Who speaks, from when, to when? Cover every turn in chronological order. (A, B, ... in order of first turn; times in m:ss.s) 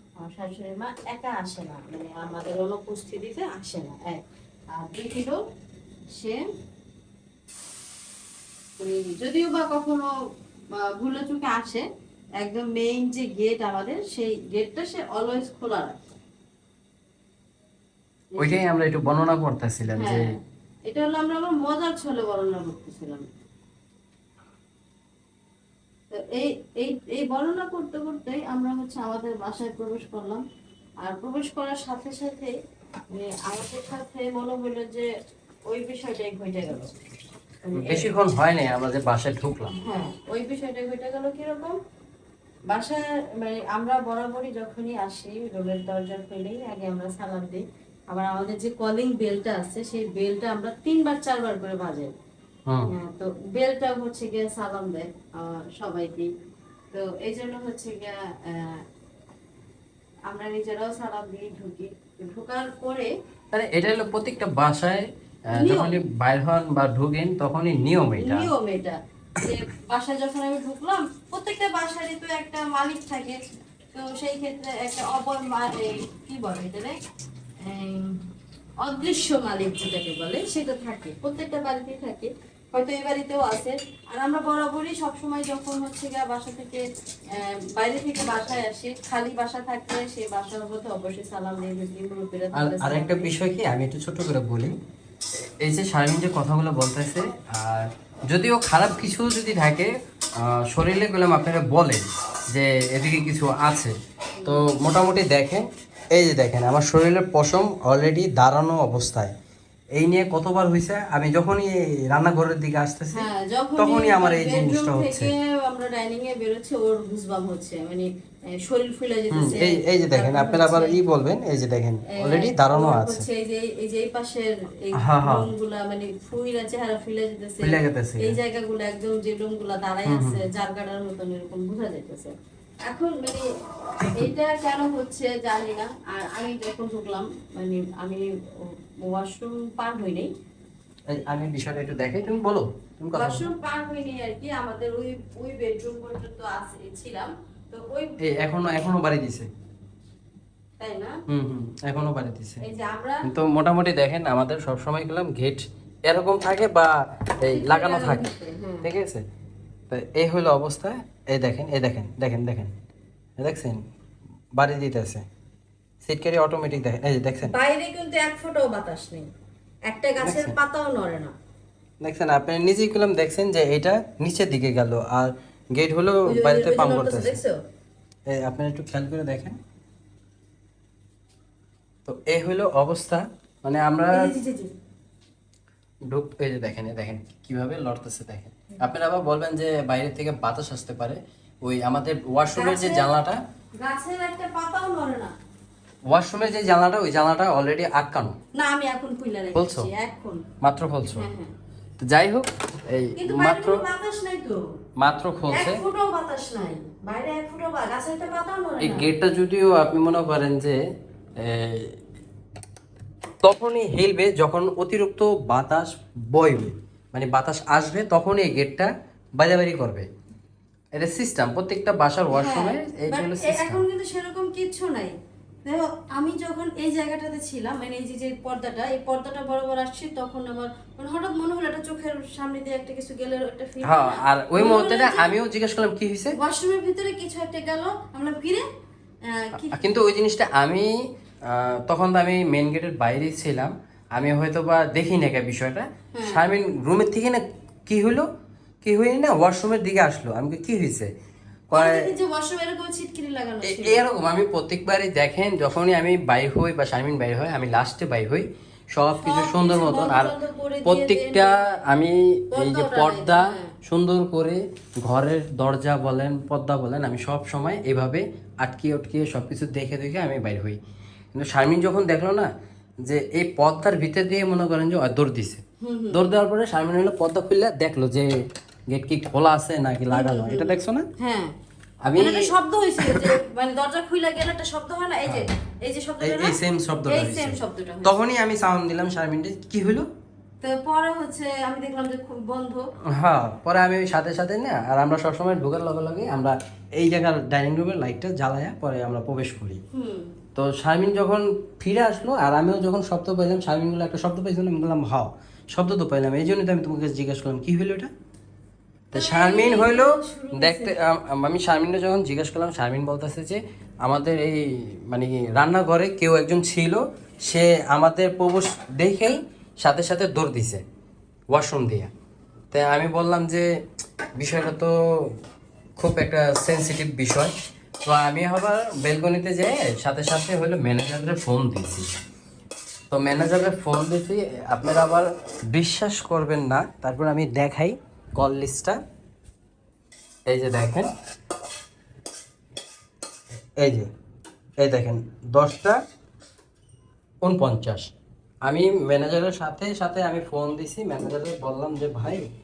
0:00.2-0:05.4 A
0:06.1-0:06.4 A
0:08.8-0:10.1 A
0:10.7-0:11.8 A
0:12.4-0:16.0 A
0:18.3-0:18.6 A
0:18.4-0:20.3 B
0:20.0-0:20.4 A
0:20.9-0:23.2 A
0:26.1-0:30.4 A
0:31.0-0:32.5 A
0:33.1-0:35.1 A
0:35.7-0:36.9 A
0:37.6-0:38.1 A
0:37.8-0:39.7 B
0:39.8-0:41.8 A
0:42.7-0:52.1 A
0:52.7-0:52.9 B
0:52.9-0:56.3 A
0:56.9-0:58.8 A
1:00.3-1:03.1 A
1:03.5-1:08.5 B
1:05.5-1:06.0 A
1:08.2-1:13.4 A
1:13.9-1:17.0 A
1:17.6-1:18.2 A
1:18.8-1:26.8 A
1:27.3-1:33.3 A
1:32.5-1:34.7 B
1:35.4-1:49.3 B
1:44.4-1:44.6 A
1:50.0-1:55.3 B
1:53.1-2:01.0 A
1:59.3-2:03.2 B
2:02.1-2:12.3 A
2:05.0-2:05.5 B
2:07.6-2:08.4 B
2:10.0-2:10.4 B
2:12.9-2:13.4 A
2:14.0-2:20.3 A
2:21.1-2:23.5 B
2:23.1-2:28.1 A
2:28.2-2:29.5 B
2:30.8-2:31.2 A
2:31.3-2:32.6 B
2:32.6-2:33.3 A
2:33.2-2:38.3 B
2:37.4-2:38.9 A
2:38.8-2:39.2 B
2:39.9-2:42.7 B
2:43.4-2:43.8 B
2:44.5-2:45.2 B
2:46.0-2:47.5 B
2:47.4-2:49.3 A
2:49.9-2:51.3 A
2:50.2-2:50.6 B
2:52.0-2:57.4 B
2:56.2-2:57.6 A
2:58.3-2:59.6 B
3:02.0-3:04.3 B
3:04.1-3:04.7 A
3:06.1-3:13.4 B
3:12.5-3:13.1 A
3:13.8-3:15.3 A
3:16.1-3:18.4 B
3:18.5-3:20.4 A
3:19.5-3:19.9 B
3:20.6-3:21.3 B
3:21.1-3:21.5 A
3:22.0-3:23.8 B
3:23.2-3:24.7 A
3:25.0-3:25.8 B
3:25.5-3:29.1 A
3:28.8-3:30.8 B
3:31.4-3:32.0 B
3:33.4-3:40.1 B
3:40.9-3:43.8 B
3:42.3-3:55.3 A
3:53.8-3:56.4 B
3:56.3-3:58.6 A
3:59.3-3:59.7 A
3:59.7-4:08.3 B
4:06.1-4:06.4 A
4:08.8-4:11.1 B
4:11.7-4:12.0 B
4:11.7-4:14.0 A
4:13.6-4:20.3 B
4:19.2-4:21.7 A
4:20.8-4:30.8 B
4:22.5-4:23.7 A
4:31.3-4:32.5 B
4:33.0-4:41.1 B
4:35.8-4:36.2 A
4:40.1-4:41.5 A
4:42.0-4:43.4 B
4:42.2-4:48.2 A
4:46.2-4:50.1 B
4:50.6-4:52.9 A
4:53.1-4:59.8 B
4:59.9-5:00.3 A
5:00.5-5:08.1 B
5:09.1-5:20.8 B
5:09.1-5:10.9 A
5:21.5-5:22.1 B
5:22.7-5:23.7 B
5:24.4-5:25.4 B
5:26.0-5:27.5 B
5:28.0-5:32.2 B
5:33.1-5:39.0 B
5:40.5-5:41.1 B
5:43.8-5:44.1 B
5:44.8-5:46.0 B
5:47.4-5:48.1 B
5:48.6-5:52.4 B